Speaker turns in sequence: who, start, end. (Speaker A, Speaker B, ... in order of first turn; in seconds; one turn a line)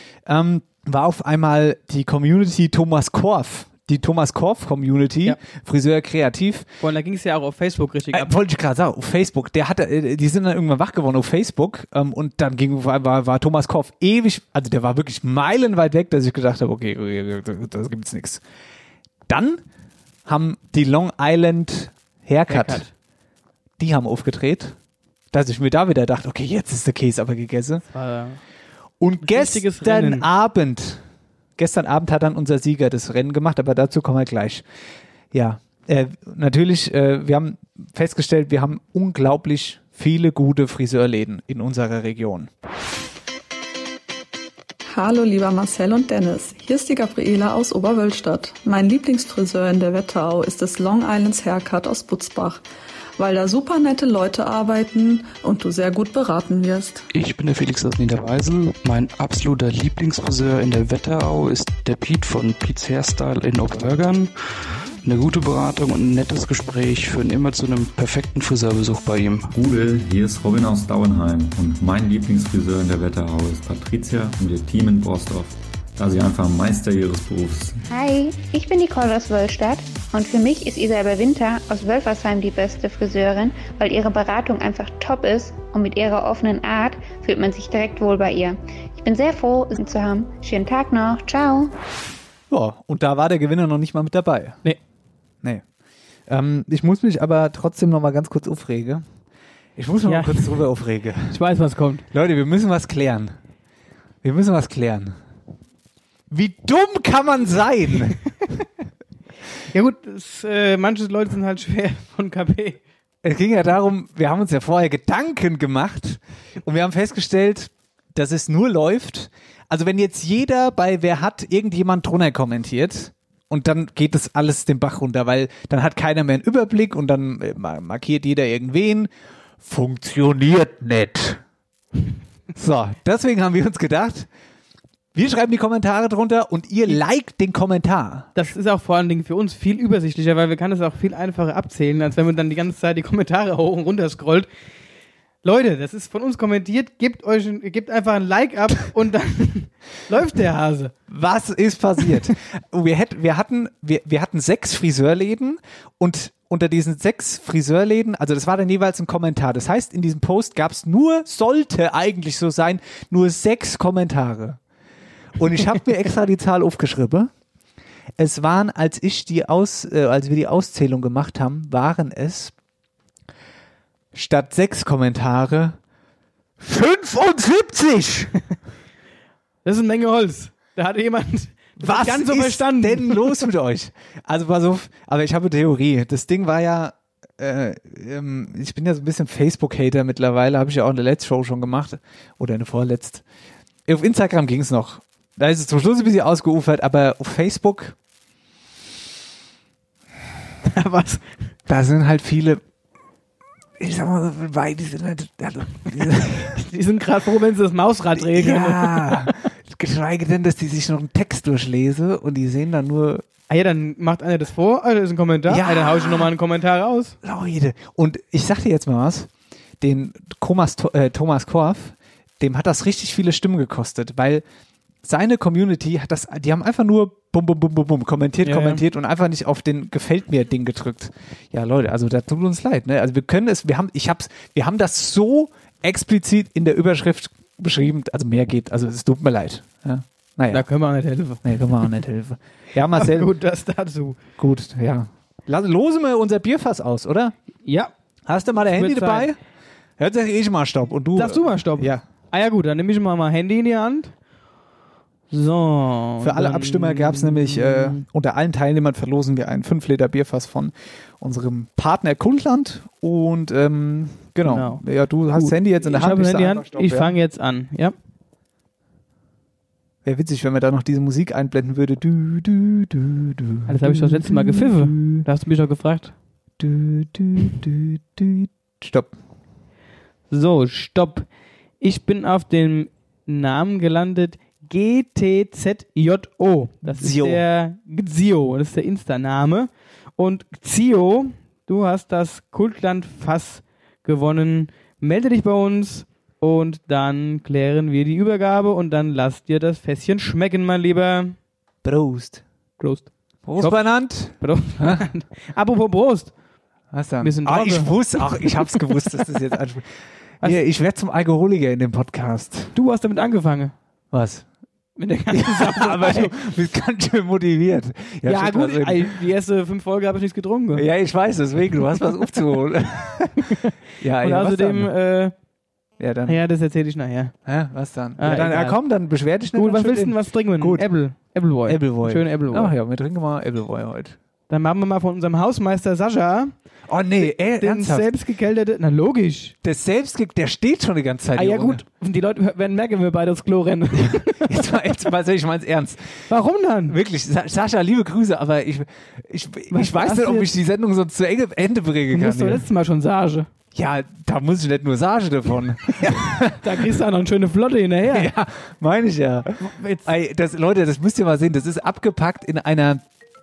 Speaker A: 0.2-6.7
Speaker B: 6.8-8.3
Speaker A: 8.1-18.4
Speaker A: 19.3-19.6
Speaker A: 20.2-22.9
Speaker B: 22.5-22.9
Speaker A: 23.8-24.8
Speaker A: 25.3-27.8
Speaker B: 27.9-28.4
Speaker A: 29.0-31.0
Speaker B: 29.2-30.2
Speaker A: 31.6-34.6
Speaker A: 35.3-42.5
Speaker C: 44.9-52.6
Speaker C: 53.2-57.0
Speaker D: 57.1-64.3
Speaker D: 65.0-69.5
Speaker E: 69.5-77.8
Speaker F: 77.9-91.7
Speaker A: 92.5-94.6
Speaker A: 96.3-99.0
Speaker A: 99.8-101.4
Speaker B: 100.1-100.6
Speaker B: 101.3-102.0
Speaker A: 102.1-103.3
Speaker A: 104.2-105.1
Speaker A: 106.3-108.2
Speaker B: 109.7-112.8
Speaker A: 113.2-131.4
Speaker A: 132.5-134.3
Speaker A: 135.1-138.3
Speaker B: 138.3-144.5
Speaker B: 145.4-150.9
Speaker A: 151.1-164.6
Speaker A: 165.3-167.3
Speaker A: 168.2-172.5
Speaker A: 174.1-175.8
Speaker A: 176.6-178.3
Speaker B: 179.6-183.4
Speaker A: 181.8-193.2
Speaker A: 193.9-197.9
Speaker B: 200.7-201.2
Speaker A: 201.7-202.6
Speaker A: 203.8-206.6
Speaker B: 206.5-209.3
Speaker A: 208.1-213.2
Speaker B: 213.5-217.2
Speaker A: 215.5-216.3
Speaker A: 217.2-224.4
Speaker A: 225.0-240.7
Speaker B: 228.4-228.8
Speaker B: 240.5-241.9
Speaker A: 241.4-243.3
Speaker B: 242.9-244.2
Speaker A: 244.4-247.3
Speaker B: 247.6-247.9
Speaker A: 248.2-249.4
Speaker B: 248.7-249.3
Speaker A: 250.0-252.0
Speaker B: 251.1-254.1
Speaker B: 255.3-258.0
Speaker A: 256.2-267.1
Speaker B: 264.4-264.8
Speaker B: 265.3-267.9
Speaker A: 270.0-275.2
Speaker B: 273.7-276.1
Speaker A: 276.6-279.1
Speaker B: 280.3-281.2
Speaker B: 281.8-301.4
Speaker A: 286.8-287.4
Speaker A: 301.8-302.4
Speaker B: 302.8-306.3
Speaker A: 303.4-305.0
Speaker A: 306.9-309.9
Speaker B: 307.2-309.0
Speaker A: 310.4-312.7
Speaker B: 312.7-313.7
Speaker A: 314.1-314.4
Speaker B: 315.0-316.3
Speaker A: 315.3-319.1
Speaker B: 318.2-320.9
Speaker A: 320.7-324.9
Speaker B: 323.4-325.3
Speaker A: 326.0-326.4
Speaker B: 326.2-327.3
Speaker A: 327.4-330.9
Speaker B: 328.2-328.8
Speaker B: 329.5-332.7
Speaker A: 331.6-334.2
Speaker B: 334.5-336.5
Speaker A: 336.9-338.1
Speaker B: 337.2-339.5
Speaker A: 339.6-341.8
Speaker B: 341.3-344.8
Speaker A: 344.0-346.2
Speaker B: 346.3-347.0
Speaker A: 346.9-352.6
Speaker B: 349.7-350.5
Speaker B: 352.1-353.5
Speaker A: 353.7-356.9
Speaker B: 356.5-358.3
Speaker A: 358.1-363.0
Speaker B: 359.6-360.1